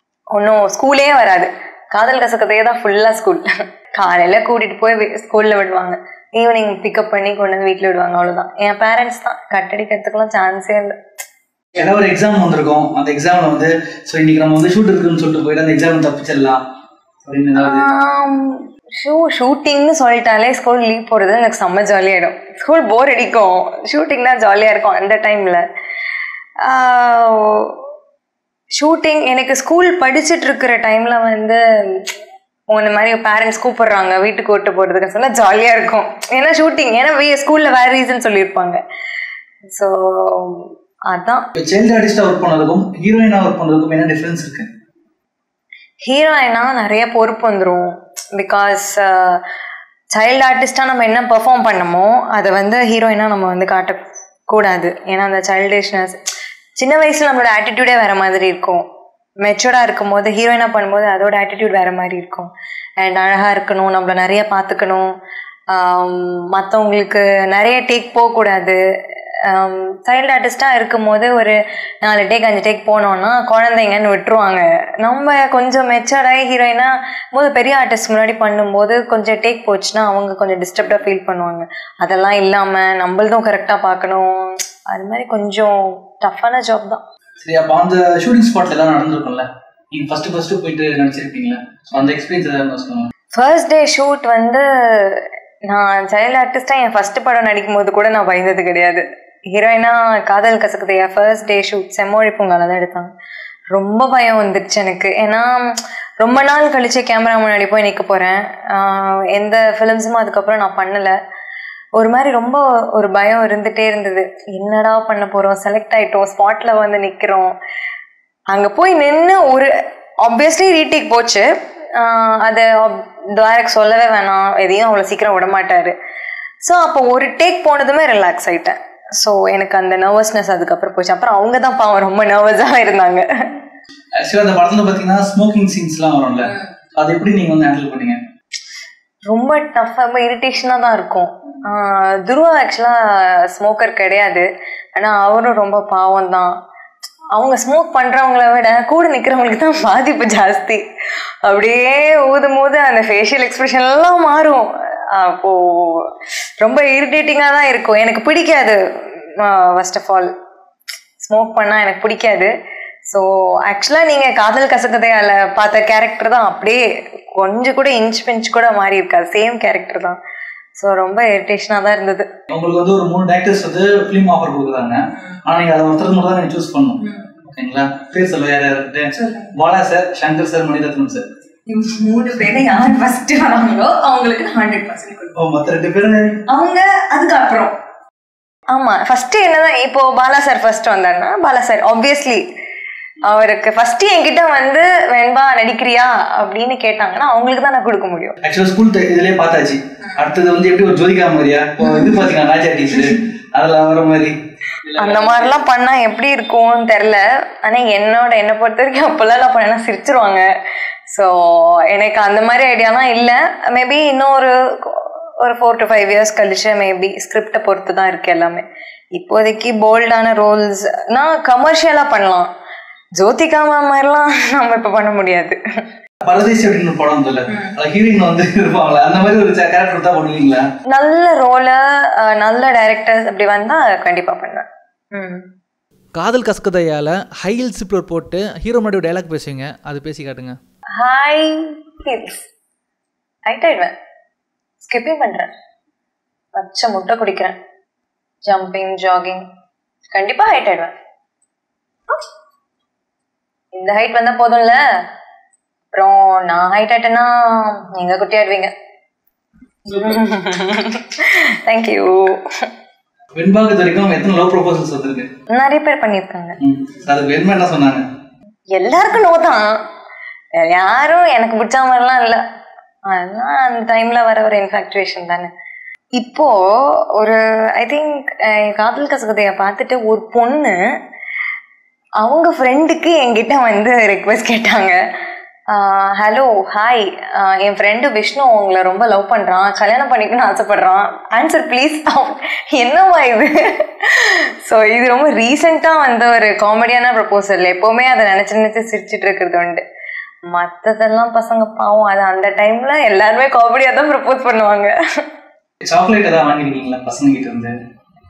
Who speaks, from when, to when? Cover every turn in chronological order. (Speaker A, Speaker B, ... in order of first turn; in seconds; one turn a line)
Speaker A: 0.3-11.0
Speaker B: 11.8-16.6
Speaker B: 17.2-17.9
Speaker A: 17.6-25.6
Speaker A: 26.6-27.8
Speaker A: 28.8-32.1
Speaker A: 32.7-38.8
Speaker A: 39.7-41.5
Speaker B: 41.6-44.7
Speaker A: 46.0-49.4
Speaker A: 50.1-56.2
Speaker A: 56.8-58.8
Speaker A: 59.4-62.5
Speaker A: 63.0-65.1
Speaker A: 65.7-68.8
Speaker A: 69.4-87.0
Speaker B: 87.4-93.1
Speaker A: 93.3-103.1
Speaker A: 103.7-105.7
Speaker A: 106.2-111.1
Speaker A: 112.0-117.5
Speaker A: 118.5-119.7
Speaker A: 120.2-125.9
Speaker A: 126.6-133.5
Speaker B: 134.2-138.2
Speaker A: 139.3-146.6
Speaker A: 147.3-150.8
Speaker A: 151.4-158.8
Speaker A: 159.4-160.3
Speaker A: 161.2-162.5
Speaker A: 163.1-166.8
Speaker A: 167.3-170.2
Speaker A: 170.8-172.3
Speaker B: 172.5-181.3
Speaker A: 179.2-179.5
Speaker A: 181.7-185.3
Speaker B: 185.3-186.4
Speaker A: 186.5-187.7
Speaker A: 188.7-192.4
Speaker A: 193.2-198.4
Speaker B: 198.4-205.6
Speaker A: 205.0-210.5
Speaker A: 211.1-222.5
Speaker A: 223.2-225.6
Speaker B: 226.2-230.7
Speaker A: 230.9-235.4
Speaker C: 236.2-240.5
Speaker A: 241.0-242.5
Speaker A: 243.5-243.9
Speaker A: 244.8-245.5
Speaker A: 246.6-247.6
Speaker A: 248.5-249.4
Speaker A: 250.1-250.9
Speaker A: 253.7-254.8
Speaker A: 255.9-258.7
Speaker A: 259.9-262.7
Speaker B: 263.4-265.3
Speaker A: 265.5-266.6
Speaker B: 266.6-268.0
Speaker A: 268.7-269.8
Speaker A: 270.5-272.4
Speaker A: 273.1-275.5
Speaker A: 276.1-280.8
Speaker A: 282.2-285.0
Speaker A: 285.7-299.8
Speaker A: 300.5-304.9
Speaker B: 305.8-307.7